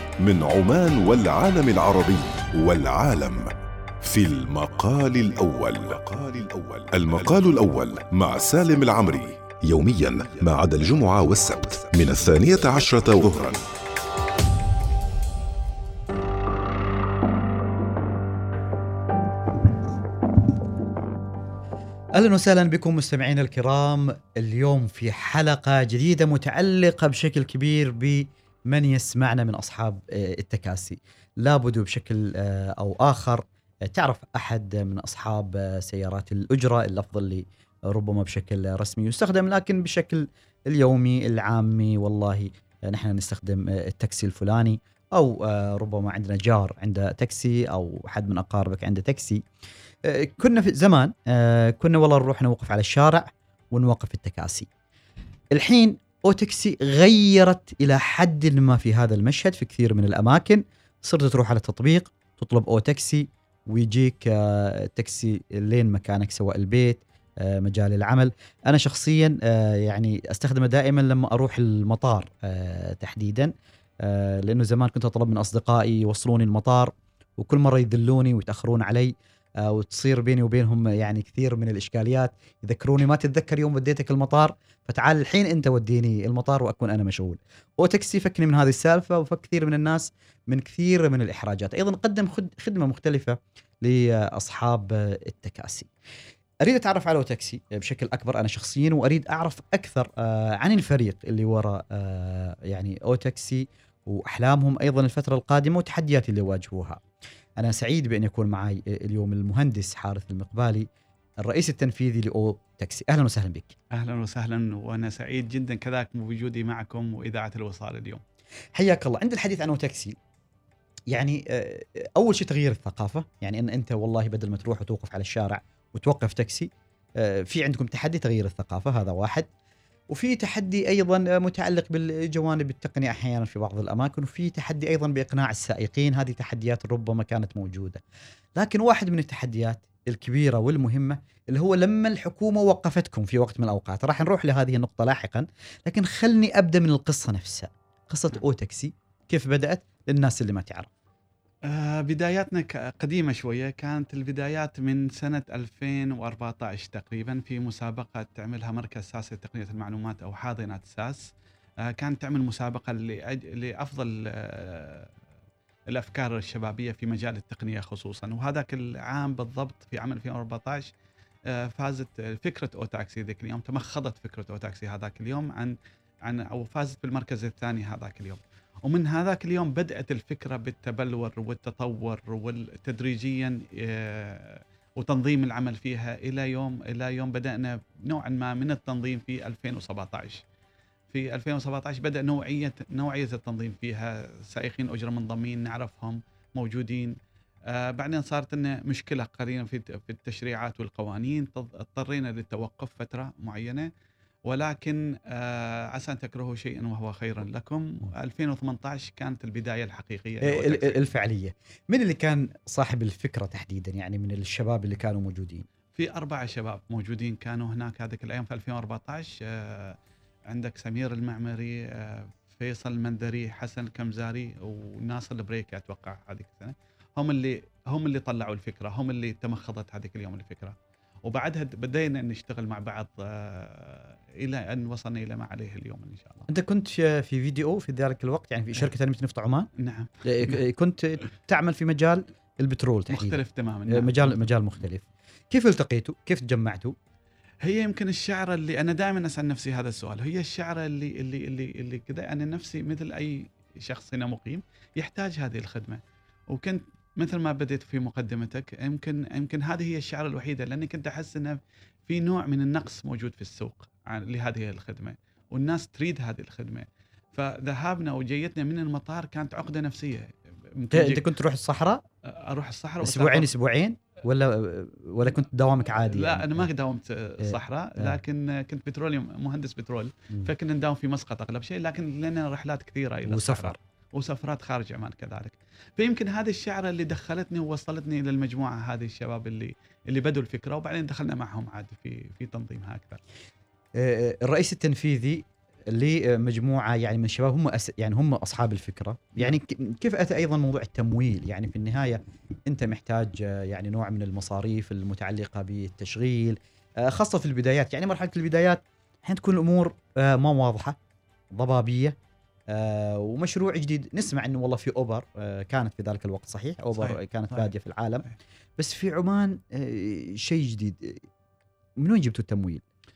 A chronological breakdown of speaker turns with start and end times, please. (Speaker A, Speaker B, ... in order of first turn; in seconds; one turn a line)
Speaker A: 0.2-13.6
Speaker B: 22.1-49.4
Speaker B: 50.0-54.7
Speaker B: 55.5-73.5
Speaker B: 74.0-95.9
Speaker B: 96.6-107.0
Speaker B: 107.6-110.9
Speaker B: 111.4-113.7
Speaker C: 113.9-118.2
Speaker B: 118.8-120.2
Speaker B: 121.1-129.5
Speaker B: 130.1-138.0
Speaker B: 138.6-150.9
Speaker C: 151.6-161.3
Speaker C: 161.8-165.1
Speaker C: 165.9-170.9
Speaker C: 171.5-190.4
Speaker C: 191.1-203.9
Speaker C: 204.4-211.0
Speaker B: 210.4-215.7
Speaker C: 215.9-220.0
Speaker C: 220.5-236.5
Speaker B: 236.5-239.7
Speaker C: 239.8-240.6
Speaker B: 240.2-246.9
Speaker C: 243.1-244.5
Speaker C: 247.6-271.2
Speaker B: 270.9-272.0
Speaker C: 272.2-273.5
Speaker B: 273.0-276.7
Speaker C: 276.0-293.2
Speaker B: 277.4-278.2
Speaker B: 283.2-283.8
Speaker B: 293.9-311.0
Speaker B: 311.5-312.2
Speaker B: 312.7-318.2
Speaker C: 317.0-317.7
Speaker B: 318.8-321.2
Speaker B: 322.0-322.8